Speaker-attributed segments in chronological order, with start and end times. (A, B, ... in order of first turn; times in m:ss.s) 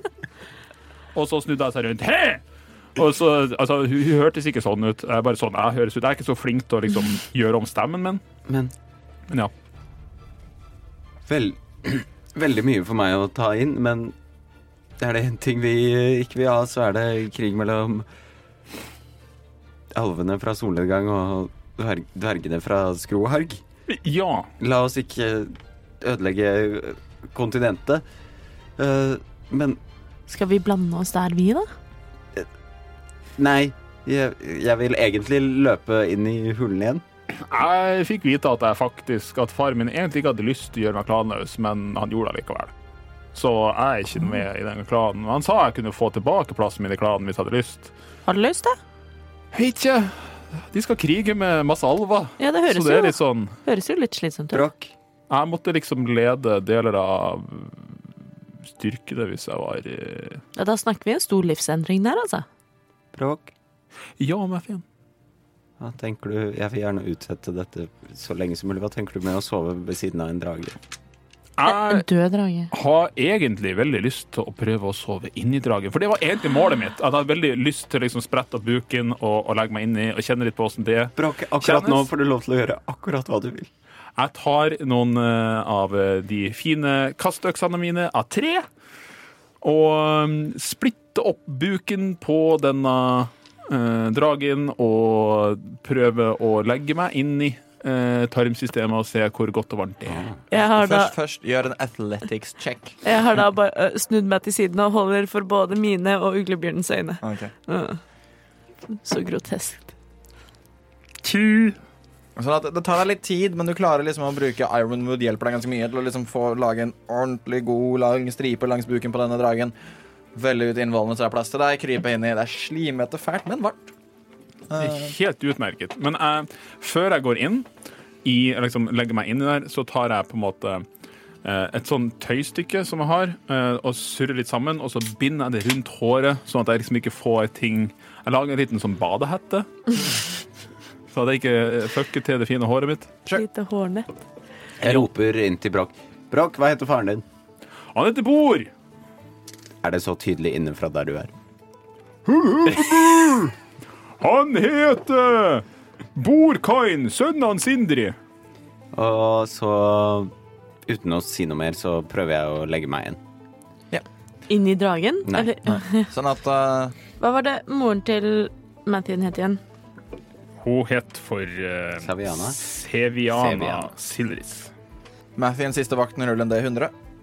0:01.1-0:02.4 A
0:02.9-0:08.2 A
0:08.4-0:08.7 B
0:11.2-0:14.1 B
0:15.0-0:18.1 B
0:19.9-0:23.6 B
0:23.9-0:24.5 A
0:24.6-0:28.0 B
0:28.8-0:29.8 B
0:30.3-0:31.7 C
0:33.4-0:37.0 B
0:37.4-0:42.7 A
0:43.3-0:47.9 A
0:48.2-0:48.8 C
0:49.5-0:53.6 A
0:52.4-0:54.6 C
0:54.5-0:54.9 B
0:55.3-0:58.0 A
0:58.6-1:00.4 A
1:00.6-1:02.4 C
1:03.1-1:03.5 B
1:04.2-1:04.8 A
1:05.8-1:10.8 B
1:11.6-1:12.0 A
1:11.6-1:12.7 C
1:12.7-1:22.1 A
1:21.2-1:23.7 B
1:24.2-1:28.6 A
1:29.6-1:40.3 A
1:40.1-1:40.4 B
1:40.5-1:41.1 C
1:40.5-1:43.0 D
1:43.0-1:48.0 C
1:47.2-1:47.5 D
1:49.0-1:49.9 C
1:51.2-1:51.8 A
1:52.4-1:59.7 D
2:00.3-2:03.9 D
2:04.7-2:05.1 D
2:04.8-2:07.7 A
2:08.2-2:10.8 A
2:11.4-2:20.1 A
2:21.1-2:23.1 A
2:23.3-2:24.2 C
2:24.8-2:27.2 B
2:27.9-2:28.7 A
2:29.8-2:31.3 B
2:32.3-2:33.5 A
2:34.2-2:38.2 A
2:38.9-2:40.3 B
2:40.8-2:43.2 B
2:44.5-2:46.1 C
2:45.2-2:45.5 B
2:45.6-2:46.9 D
2:47.2-2:49.6 C
2:50.6-2:54.7 A
2:52.0-2:52.6 B
2:53.4-2:53.8 B
2:55.4-2:56.9 D